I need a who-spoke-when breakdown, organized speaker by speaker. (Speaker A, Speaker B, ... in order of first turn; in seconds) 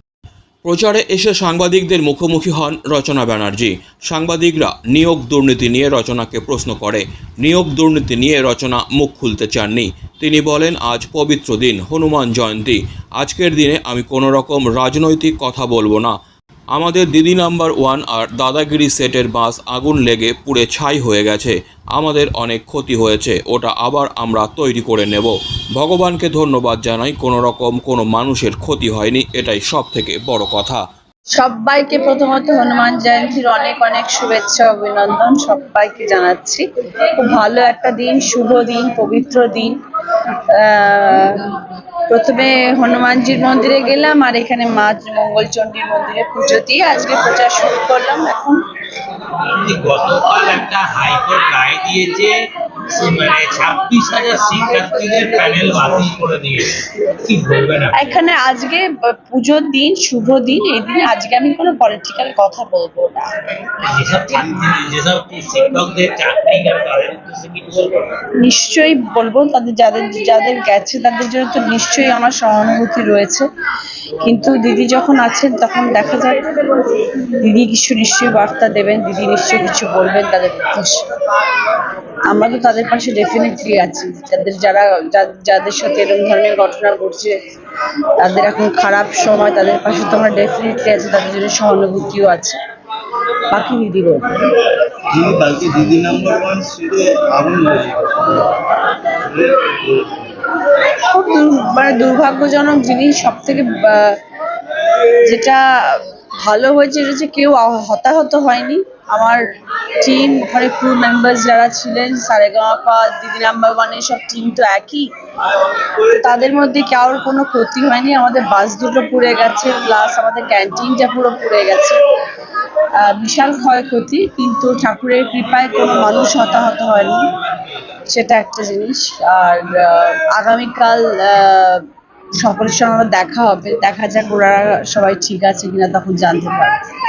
Speaker A: 0.6-16.1, 16.7-30.8
Speaker B: 31.3-39.7, 40.5-41.4, 42.1-48.6, 58.0-63.3, 68.4-73.5, 74.2-81.0, 82.3-87.3, 88.2-92.5, 93.5-94.3, 101.1-104.2, 105.2-109.4, 110.0-115.0, 116.0-122.0, 123.0-127.2, 128.1-131.8, 132.4-136.7
Speaker C: 49.4-52.3, 52.9-58.1, 63.9-68.1
Speaker D: 95.1-98.6, 99.3-100.2